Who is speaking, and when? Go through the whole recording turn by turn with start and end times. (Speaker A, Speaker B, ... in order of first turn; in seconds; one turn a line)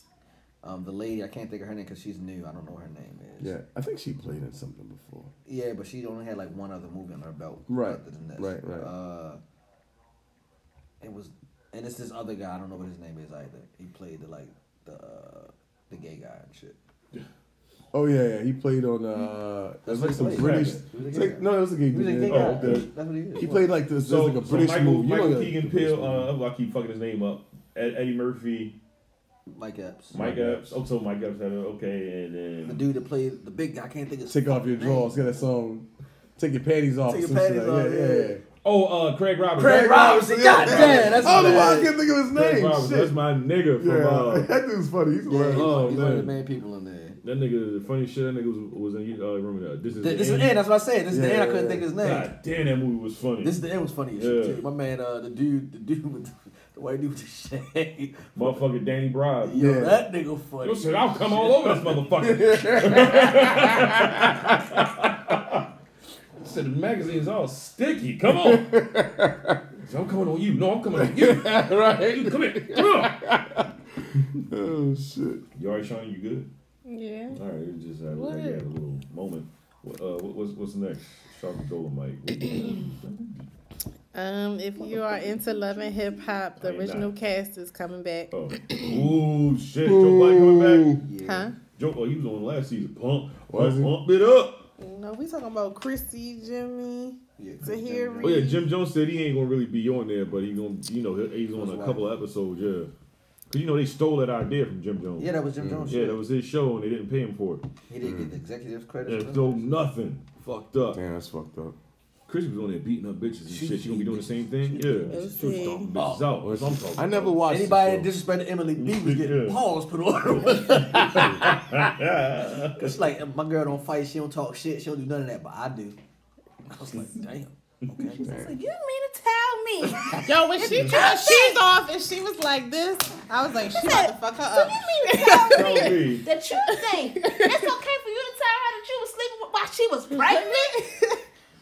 Speaker A: 0.6-3.5
Speaker B: 3.4-5.3
Speaker A: 5.5-9.4
Speaker B: 7.7-8.9
Speaker A: 11.0-16.8
Speaker B: 17.9-26.3
Speaker A: 19.9-23.7
Speaker C: 20.0-20.9
Speaker C: 22.3-22.9
Speaker C: 24.0-28.8
Speaker A: 29.5-30.2
Speaker C: 30.1-32.9
Speaker B: 30.1-30.8
Speaker A: 32.7-35.5
Speaker B: 34.3-35.9
Speaker B: 36.4-38.4
Speaker A: 37.0-38.3
Speaker C: 38.6-44.5
Speaker A: 39.6-42.0
Speaker B: 40.2-43.2
Speaker B: 43.8-46.0
Speaker A: 45.3-47.2
Speaker C: 45.5-46.4
Speaker C: 47.2-50.6
Speaker A: 50.0-52.3
Speaker B: 51.1-51.9
Speaker C: 52.0-53.6
Speaker A: 53.4-58.6
Speaker C: 54.1-54.6
Speaker C: 58.4-59.6
Speaker A: 59.4-62.1
Speaker B: 59.6-60.0
Speaker C: 60.6-65.7
Speaker B: 62.2-65.1
Speaker C: 66.4-68.8
Speaker B: 68.3-69.6
Speaker C: 69.8-73.3
Speaker B: 70.9-75.4
Speaker C: 75.5-76.5
Speaker D: 76.9-77.4
Speaker C: 77.3-83.4
Speaker D: 78.1-78.7
Speaker D: 84.1-88.3
Speaker C: 86.6-87.1
Speaker C: 88.3-91.0
Speaker B: 89.8-91.0
Speaker A: 91.0-91.5
Speaker D: 91.2-91.6
Speaker C: 91.8-94.7
Speaker B: 93.5-94.0
Speaker D: 94.8-98.6
Speaker A: 97.4-98.6
Speaker C: 98.2-102.9
Speaker A: 101.5-102.1
Speaker C: 103.5-105.3
Speaker A: 105.2-106.2
Speaker B: 105.6-106.0
Speaker C: 105.9-107.7
Speaker A: 107.9-109.7
Speaker B: 108.0-108.4
Speaker C: 109.0-111.0
Speaker B: 110.9-111.8
Speaker C: 112.3-117.4
Speaker A: 113.5-116.5
Speaker D: 115.1-115.9
Speaker E: 115.1-115.9
Speaker B: 116.4-118.1
Speaker A: 117.5-121.9
Speaker C: 118.8-119.6
Speaker C: 120.5-123.0
Speaker A: 122.8-126.0
Speaker A: 126.7-128.3
Speaker E: 128.2-131.6
Speaker B: 128.2-128.6
Speaker D: 130.2-137.8
Speaker C: 130.6-131.0
Speaker E: 133.7-140.9
Speaker C: 135.5-136.3
Speaker D: 140.1-141.2